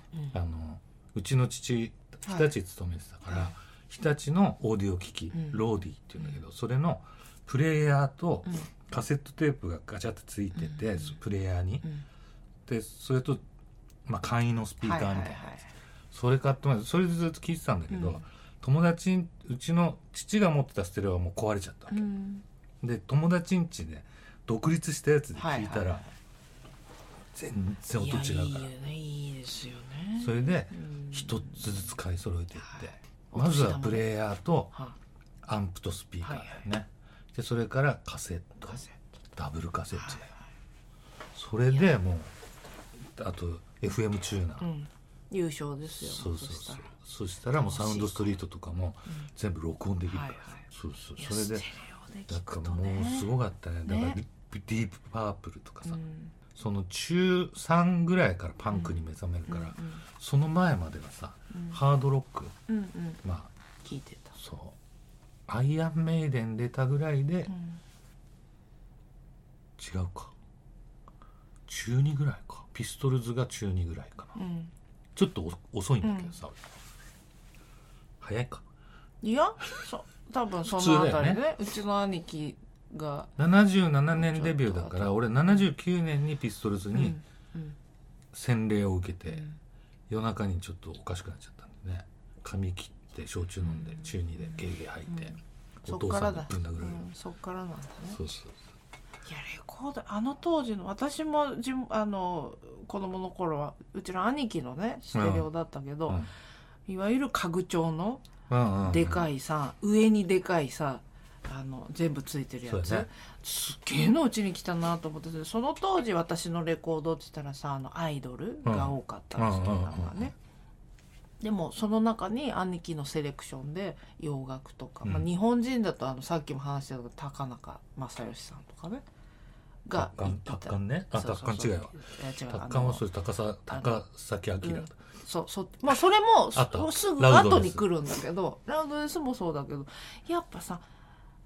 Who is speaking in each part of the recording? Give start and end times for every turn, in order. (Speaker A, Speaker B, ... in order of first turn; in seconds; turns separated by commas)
Speaker A: 0.3-11.9, Speaker B: 5.3-5.6, Speaker B: 10.6-11.1, Speaker A: 12.7-13.4, Speaker A: 14.1-15.4, Speaker B: 14.8-15.7, Speaker A: 16.1-22.0, Speaker B: 17.9-18.2, Speaker B: 21.9-22.4, Speaker A: 22.8-26.1, Speaker B: 25.3-26.1, Speaker A: 27.3-28.7, Speaker B: 27.9-31.7, Speaker A: 30.2-34.7, Speaker B: 32.6-34.1, Speaker A: 35.4-38.8, Speaker B: 36.2-36.6, Speaker B: 38.7-39.0, Speaker A: 39.4-40.3, Speaker B: 40.0-40.4, Speaker A: 41.3-42.3, Speaker A: 43.1-44.7, Speaker B: 44.6-46.9, Speaker A: 45.9-51.7, Speaker B: 47.5-48.4, Speaker B: 50.1-50.6, Speaker B: 51.2-53.3, Speaker A: 52.3-56.0, Speaker B: 53.9-54.2, Speaker B: 55.9-56.3, Speaker A: 56.5-62.6, Speaker B: 58.7-60.0, Speaker B: 61.5-61.8, Speaker B: 62.7-63.2, Speaker A: 63.2-63.5, Speaker B: 63.8-64.3, Speaker A: 64.3-64.8, Speaker A: 65.5-67.5, Speaker B: 67.5-67.8, Speaker A: 69.8-70.3, Speaker A: 71.7-74.3, Speaker B: 74.3-74.7, Speaker A: 75.2-76.6, Speaker B: 76.0-76.3, Speaker A: 78.2-78.6, Speaker B: 79.2-83.3, Speaker A: 80.7-81.4, Speaker A: 83.4-87.2, Speaker B: 84.1-85.7, Speaker B: 86.9-87.8, Speaker A: 88.3-89.4, Speaker B: 89.3-89.6, Speaker A: 90.1-97.0, Speaker B: 93.6-98.2, Speaker A: 98.1-98.6, Speaker B: 99.2-106.2, Speaker A: 105.1-105.5, Speaker B: 106.9-108.2, Speaker A: 108.5-109.2, Speaker B: 108.8-120.3, Speaker A: 112.7-113.0, Speaker A: 118.6-120.3, Speaker B: 121.4-129.0, Speaker B: 129.8-133.0, Speaker A: 129.9-135.0, Speaker B: 133.7-134.0, Speaker B: 134.6-140.8, Speaker A: 136.5-137.9